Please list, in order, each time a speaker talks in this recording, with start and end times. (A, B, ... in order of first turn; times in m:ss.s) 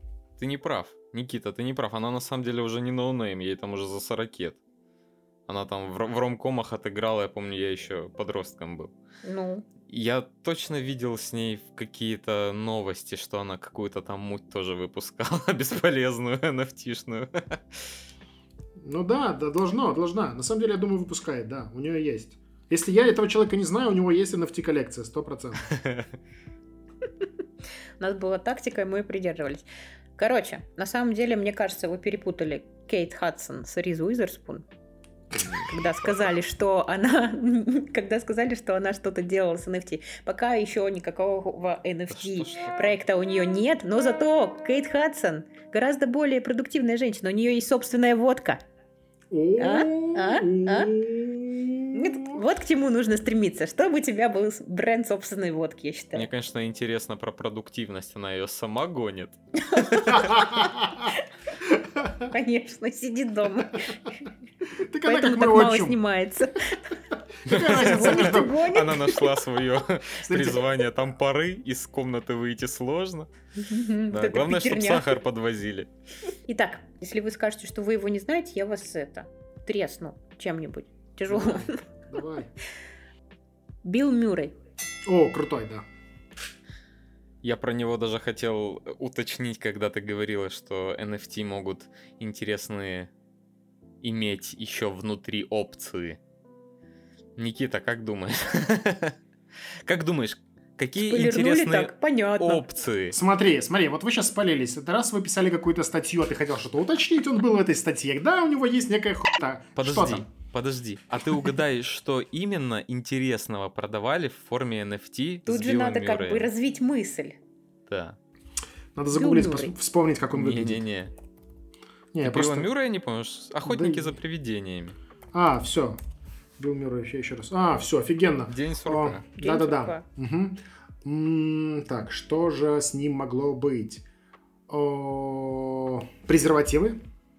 0:00.4-0:04.6 A
0:05.5-0:08.9 A
0:09.2-0:09.6 B
0:09.9-0:17.9 A
0:18.8-0:25.7 C
0:25.7-0:26.2 A
0:28.0-0:29.7 B
0:30.2-0:34.7 B
0:35.4-0:36.1 A
0:35.7-0:48.6 B
0:42.1-0:43.0 A
0:49.3-0:52.4 C
0:49.6-0:51.0 B
0:51.9-0:56.3 B
0:56.1-1:00.2 A
0:59.7-1:00.3 B
1:00.1-1:01.1 C
1:01.7-1:02.3 C
1:02.3-1:04.1 B
1:04.8-1:06.0 C
1:05.0-1:07.0 B
1:07.4-1:08.5 C
1:07.5-1:13.3 A
1:07.8-1:09.4 B
1:10.2-1:10.7 C
1:13.6-1:15.2 B
1:14.1-1:15.9 A
1:16.5-1:21.8 B
1:21.3-1:22.5 C
1:23.8-1:24.6 B
1:25.1-1:25.8 C
1:27.4-1:33.1 A
1:34.0-1:36.2 A
1:37.4-1:39.2 A
1:39.8-1:43.2 A
1:41.0-1:42.6 B
1:43.1-1:50.3 C
1:49.8-1:56.5 A
1:55.5-1:57.4 B
1:57.9-1:58.2 A
1:59.0-2:00.8 C
1:59.2-1:59.8 B
2:00.3-2:01.1 A
2:02.1-2:02.7 C
2:02.2-2:05.0 A
2:03.6-2:04.1 C
2:05.3-2:06.0 C
2:06.6-2:14.0 C
2:08.5-2:09.2 A
2:09.4-2:10.0 B
2:14.7-2:17.0 C